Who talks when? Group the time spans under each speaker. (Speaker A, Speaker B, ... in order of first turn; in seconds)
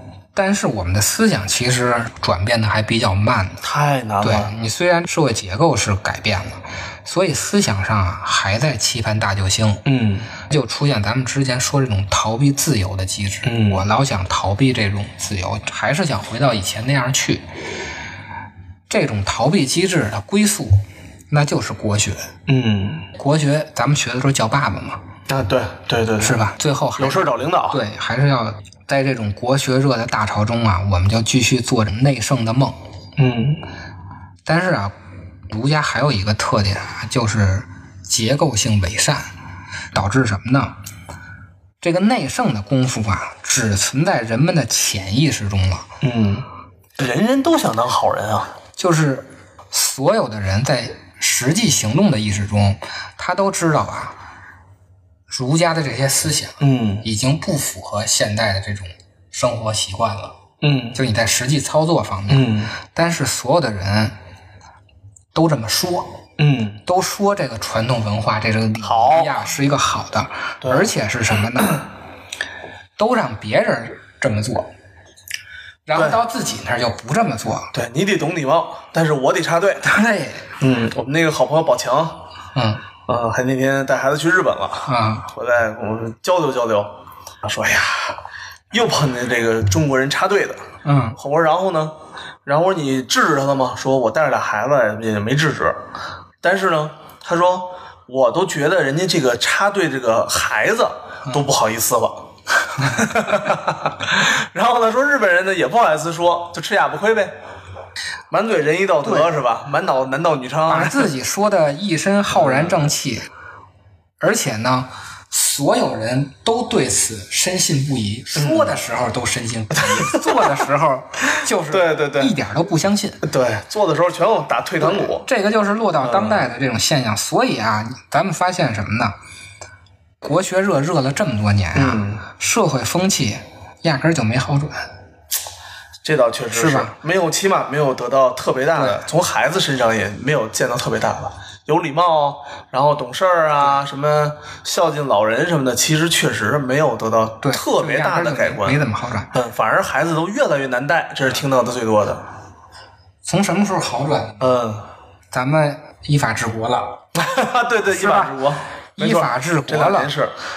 Speaker A: 0.3-3.6, 4.2-9.8, 10.4-17.4, 18.9-22.3, 23.2-25.0, 26.2-32.8, 34.4-34.9, 35.5-39.3, 39.9-40.8, 41.8-45.9, 48.8-54.2, 55.3-60.4, 60.9-64.2, 65.3-66.2, 66.8-71.8, 73.0-74.7, 75.8-77.7, 79.8-80.5, 82.5-82.8, 84.8-85.3, 90.8-91.2, 109.0-109.3, 110.7-113.3, 114.2-123.2, 124.8-129.2, 130.2-134.9, 136.5-137.0, 138.7-139.0, 147.4-149.3, 153.2-154.5, 155.3-157.1, 157.9-158.4, 158.9-160.1
Speaker B: 3.6-4.5, 9.8-10.3, 13.4-13.8, 22.5-23.1, 25.3-26.4, 27.0-27.8, 33.2-33.6, 46.0-46.5, 47.0-48.5, 56.6-57.0, 60.6-61.0, 62.3-62.7, 66.4-66.8, 68.8-69.3, 70.6-70.9, 77.7-79.9, 80.6-82.2, 83.1-90.6, 91.2-95.8, 96.4-107.3, 108.3-111.1, 112.3-112.9, 118.3-118.8, 119.8-120.6, 121.7-122.3, 123.2-125.3, 126.0-126.5, 131.7-132.2, 136.0-152.2, 154.4-154.9, 157.1-160.3